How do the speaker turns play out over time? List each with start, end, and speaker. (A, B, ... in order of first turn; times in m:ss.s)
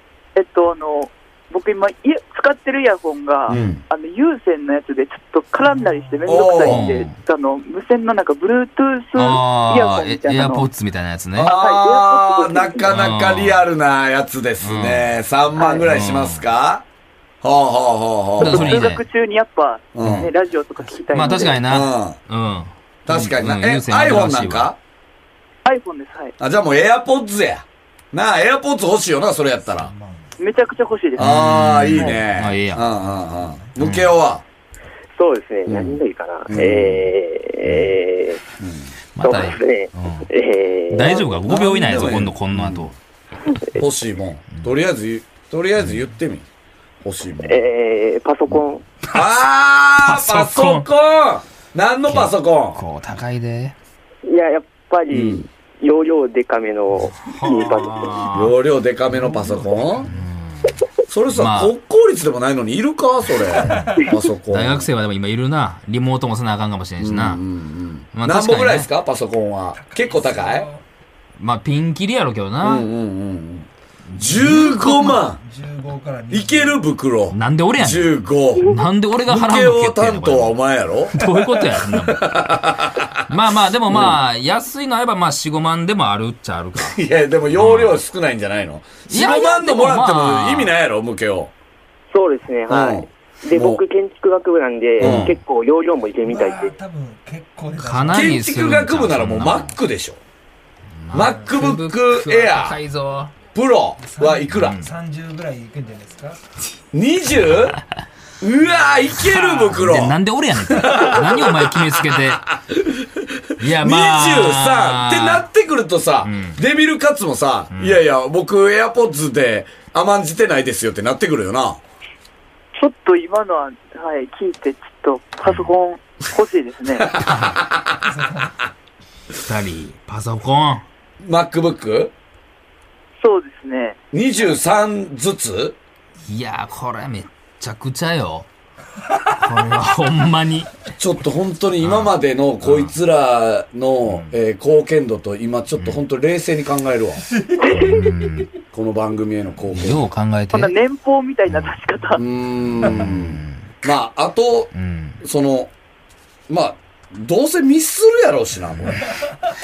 0:00.4-0:10.7 A
0:03.5-0:03.8 B
0:06.3-0:06.9 B
0:06.6-0:07.1 C
0:09.2-0:11.5 C
0:11.4-0:16.8 B
0:11.4-0:12.9 A
0:12.9-0:13.6 C
0:14.6-0:15.1 C
0:15.6-0:15.8 A
0:15.9-0:16.4 C
0:17.4-0:18.8 B
0:18.4-0:21.6 A
0:18.4-0:19.0 C
0:20.0-0:20.3 B
0:20.0-0:20.3 C
0:21.1-0:24.7 C
0:21.7-0:22.2 B
0:23.1-0:24.8 B
0:25.6-0:26.4 A
0:26.4-0:29.9 B
0:29.8-0:30.4 D
0:30.4-0:32.2 A
0:31.2-0:32.9 C
0:31.2-0:34.4 B
0:33.1-0:33.7 D
0:33.8-0:34.1 C
0:35.2-0:38.4 E
0:35.7-0:37.1 B
0:38.6-0:38.9 B
0:39.2-0:40.3 C
0:39.2-0:41.4 E
0:40.9-0:42.9 C
0:41.5-0:42.9 B
0:43.8-0:46.5 B
0:47.0-0:47.6 B
0:47.4-0:48.8 E
0:49.1-0:52.8 B
0:50.0-0:50.9 C
0:52.1-0:53.8 C
0:54.2-0:58.2 E
0:55.1-0:55.4 B
0:57.3-0:58.6 C
0:58.3-1:00.1 B
0:59.2-1:00.1 D
1:00.1-1:00.7 C
1:01.1-1:04.9 B
1:01.4-1:01.7 C
1:03.7-1:04.1 D
1:04.5-1:07.4 C
1:07.0-1:10.7 B
1:08.1-1:08.9 C
1:09.8-1:10.8 D
1:11.4-1:12.9 C
1:12.6-1:15.4 B
1:14.1-1:14.7 C
1:14.3-1:16.8 D
1:16.3-1:23.3 B
1:17.3-1:20.6 C
1:21.1-1:22.5 C
1:23.3-1:27.0 C
1:23.9-1:24.2 B
1:26.8-1:31.5 B
1:27.5-1:28.0 C
1:29.1-1:30.7 C
1:32.1-1:36.7 E
1:32.7-1:33.8 B
1:35.0-1:35.4 B
1:35.0-1:35.4 C
1:36.2-1:38.4 D
1:37.8-1:39.7 C
1:38.1-1:40.2 B
1:41.0-1:43.3 C
1:41.1-1:42.8 B
1:43.5-1:44.8 B
1:44.0-1:46.4 D
1:44.5-1:44.9 C
1:46.9-1:47.8 B
1:48.4-1:50.2 B
1:49.2-1:52.5 C
1:50.7-2:01.8 B
1:53.6-1:55.5 C
1:56.2-1:56.6 C
1:57.7-1:58.0 C
2:02.8-2:07.1 A
2:05.4-2:05.7 C
2:07.2-2:07.9 B
2:07.2-2:07.6 C
2:08.0-2:08.5 D
2:09.4-2:10.8 C
2:11.2-2:12.1 B
2:13.2-2:14.0 A
2:14.1-2:15.8 B
2:16.3-2:18.5 C
2:19.3-2:20.8 C
2:21.0-2:27.3 B
2:21.8-2:22.9 C
2:27.7-2:28.5 C
2:28.7-2:30.0 B
2:29.7-2:30.7 C
2:30.5-2:32.2 A
2:32.2-2:35.7 B
2:32.8-2:33.6 C
2:34.8-2:35.2 C
2:36.5-2:39.0 B